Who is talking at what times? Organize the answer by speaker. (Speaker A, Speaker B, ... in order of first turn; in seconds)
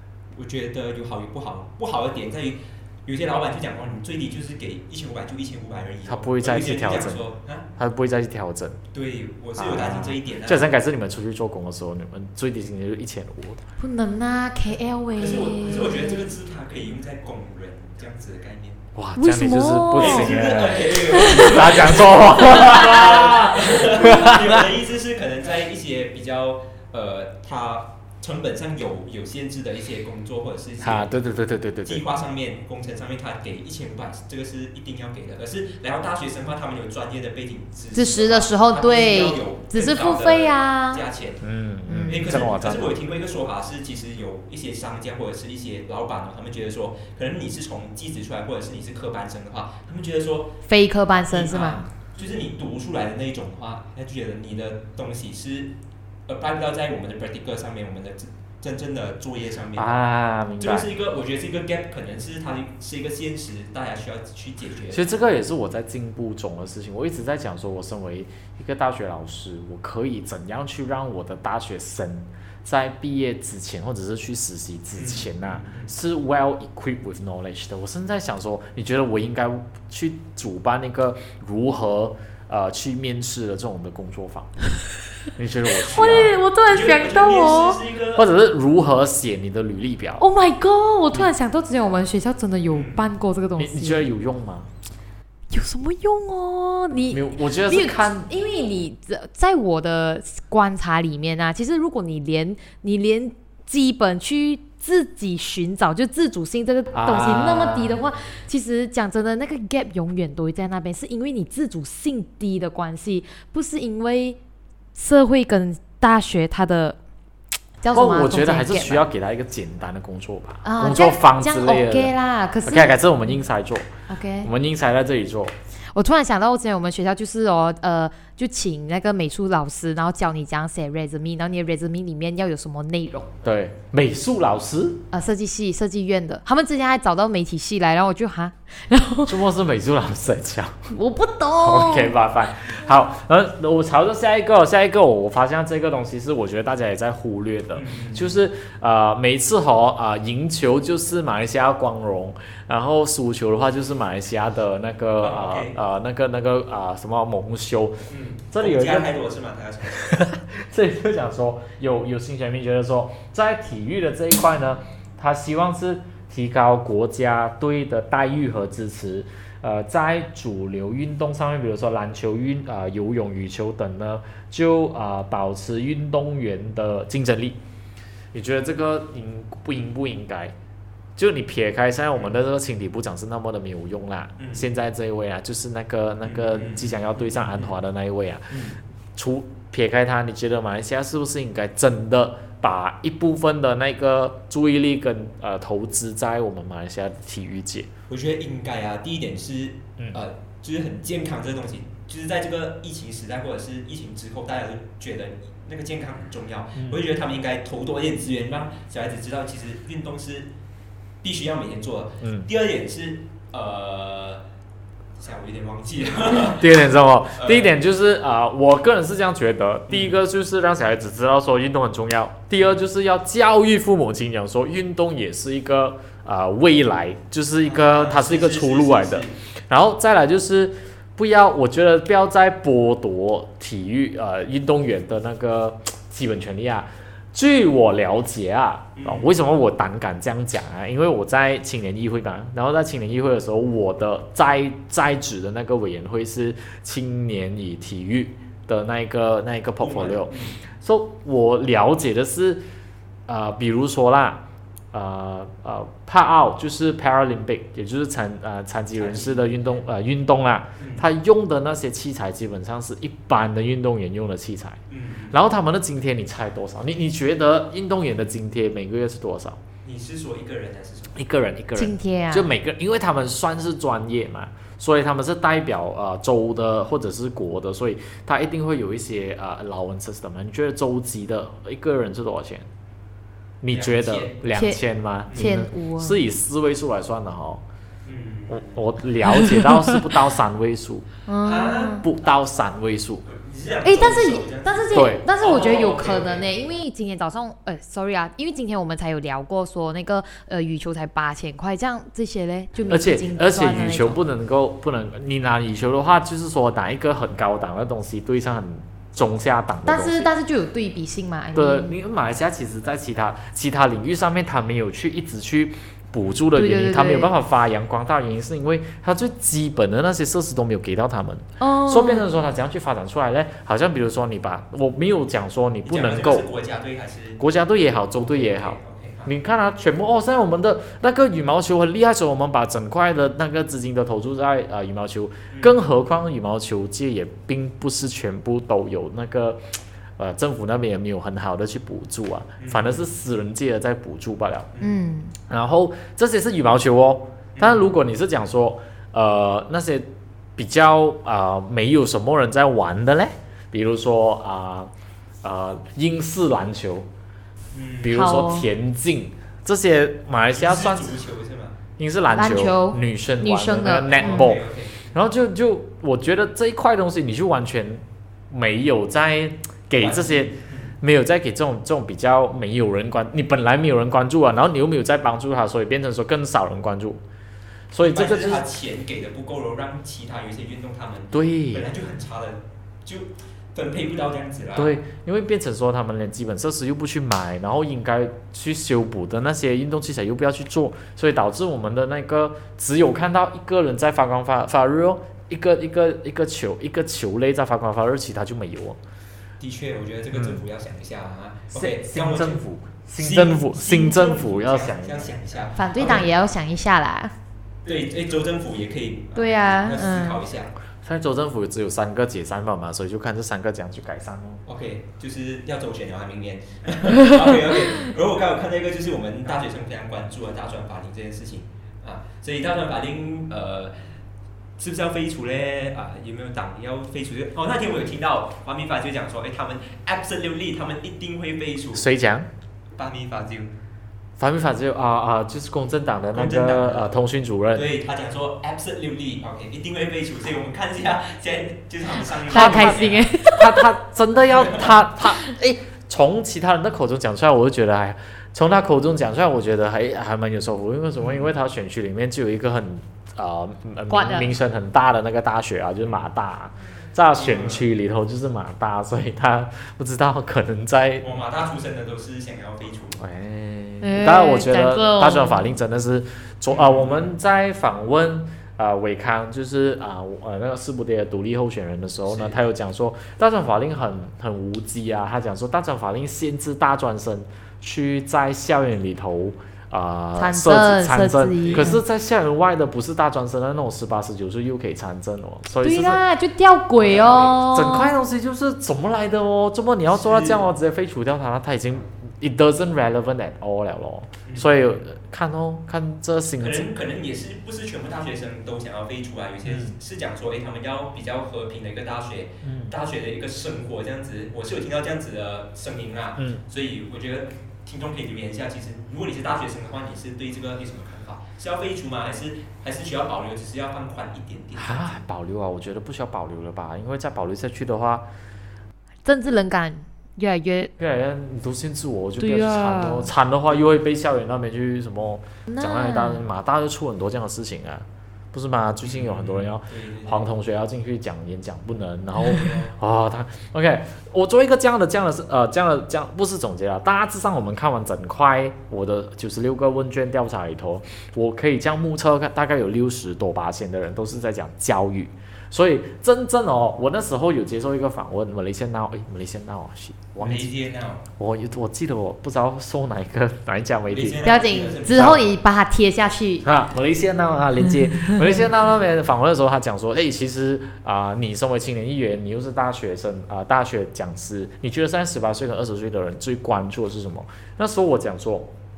Speaker A: 0.3-7.7, 8.9-10.7, 15.1-18.8, 19.9-31.1, 31.8-41.4, 42.1-50.6, 51.3-55.7, 56.3-59.9, 60.6-65.2, 75.0-75.9, 85.9-88.3, 92.7-93.1, 147.7-148.4, 155.2-155.8, 158.1-160.2, 184.4-184.7, 186.2-187.8, 188.5-188.8, 198.1-210.5, 211.2-214.4, 215.2-217.7, 219.9-220.2, 227.6-229.3, 238.9-239.3, 249.8-250.6, 258.9-259.8, 260.8-261.1, 264.9-265.4, 269.8-271.2, 283.7-284.4, 288.0-288.8, 291.4-292.0, 293.2-296.5, 325.8-327.4, 328.2-329.3, 335.5-335.8, 342.6-343.1, 344.7-345.0, 347.5-347.9, 357.7-358.2, 360.5-361.8, 364.1-365.1, 370.0-370.9, 378.0-384.9, 399.6-402.6, 403.2-406.3, 407.8-410.7, 414.6-424.1, 424.8-432.1, 432.9-433.7, 436.3-437.1, 437.7-443.3, 444.5-444.9, 457.4-457.9, 461.2-463.2, 466.7-467.3, 472.2-472.6, 481.6-481.9, 487.0-487.6, 490.1-490.6, 494.4-494.8, 496.6-515.2, 529.0-530.5, 532.4-532.9, 550.4-551.2, 554.1-555.4
Speaker B: 6.0-8.8, 9.6-13.6, 18.9-24.7, 30.8-32.0, 41.4-43.0, 59.8-60.9, 64.9-84.5, 85.3-86.3, 88.1-90.2, 93.6-94.7, 97.1-98.3, 106.9-108.0, 117.9-122.1, 122.6-123.9, 124.4-125.5, 133.4-135.0, 139.2-140.9, 141.6-159.1, 159.9-177.6, 178.3-180.5, 181.2-188.6, 189.2-197.9, 206.8-207.0, 212.2-212.5, 216.4-252.6, 253.3-264.8, 265.3-269.6, 271.1-282.7, 283.6-287.6, 288.5-291.1, 292.0-293.2, 294.9-295.2, 302.9-310.3, 311.5-326.5, 327.4-339.6, 340.2-344.7, 345.5-354.9, 355.4-357.1, 358.0-361.2, 362.0-377.2, 377.9-378.6, 381.3-381.9, 384.8-399.0, 400.3-400.6, 401.7-405.4, 411.0-414.6, 431.9-432.5, 434.4-437.9, 442.5-461.3, 463.2-486.2, 487.6-496.9, 499.6-499.9, 502.6-502.9, 506.4-506.6, 514.8-518.2, 521.0-550.7, 551.4-554.4, 555.1-555.4, 556.6-568.7
Speaker C: 13.8-16.3, 19.2-21.9, 22.5-22.9, 37.9-41.0, 41.9-42.4, 50.7-51.8, 85.8-87.8, 90.2-94.1, 95.5-114.4, 114.9-117.0, 117.8-119.0, 120.6-123.3, 124.1-124.5, 125.9-133.3, 135.1-139.4, 140.9-142.2, 271.8-272.5, 284.5-284.8, 285.3-286.2, 289.3-289.7, 291.3-292.0, 293.8-304.2, 309.9-311.9, 316.5-317.3, 321.6-322.2, 344.8-345.4, 358.1-358.7, 362.3-364.5, 405.8-407.3, 409.3-410.4, 442.5-443.9, 454.1-454.5, 464.0-465.8, 480.4-482.0, 485.8-488.1, 519.2-520.9, 522.4-523.3, 525.7-526.4, 554.4-556.6